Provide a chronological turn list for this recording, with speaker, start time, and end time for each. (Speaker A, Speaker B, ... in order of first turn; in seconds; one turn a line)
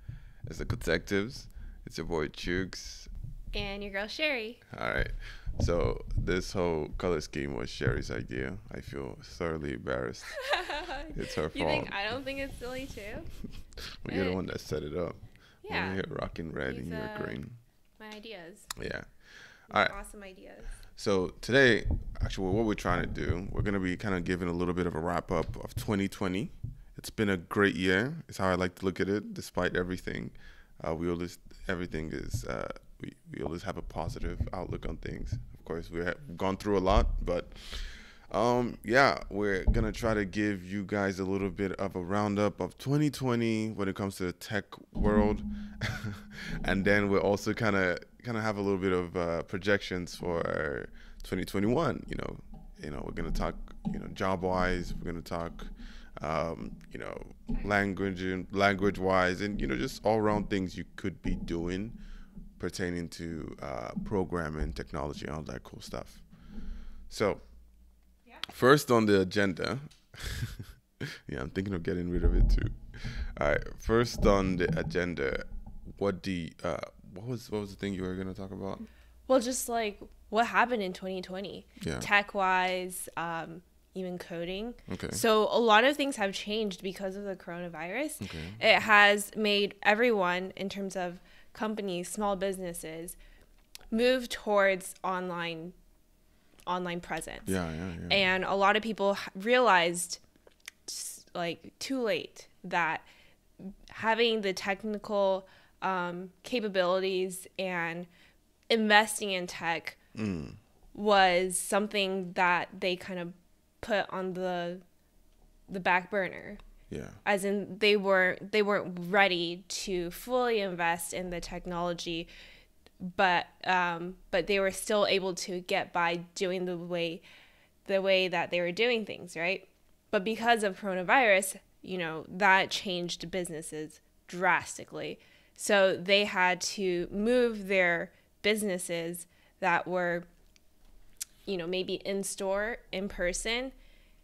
Speaker A: 0.4-3.1
Speaker B: 3.5-4.6
Speaker A: 4.7-10.4
Speaker B: 10.3-13.3
Speaker A: 11.1-11.9
Speaker A: 13.8-17.6
Speaker B: 14.1-14.4
Speaker B: 15.6-16.0
Speaker B: 16.6-17.4
Speaker B: 18.0-18.7
Speaker A: 18.8-19.9
Speaker B: 19.7-20.8
Speaker A: 20.9-62.0
Speaker A: 62.6-66.2
Speaker A: 67.1-67.4
Speaker A: 68.4-78.9
Speaker B: 79.3-93.2
Speaker A: 81.8-82.1
Speaker A: 84.9-85.2
Speaker A: 88.2-88.6
Speaker B: 93.9-95.7
Speaker B: 96.7-97.5
Speaker A: 97.5-98.2
Speaker B: 98.1-100.2
Speaker B: 100.8-103.0
Speaker B: 103.6-108.1
Speaker B: 108.7-110.0
Speaker A: 110.1-110.6
Speaker B: 110.9-114.8
Speaker B: 115.7-116.6
Speaker A: 116.9-117.2
Speaker B: 117.2-122.3
Speaker B: 123.0-127.2
Speaker B: 127.8-140.2
Speaker B: 141.4-143.7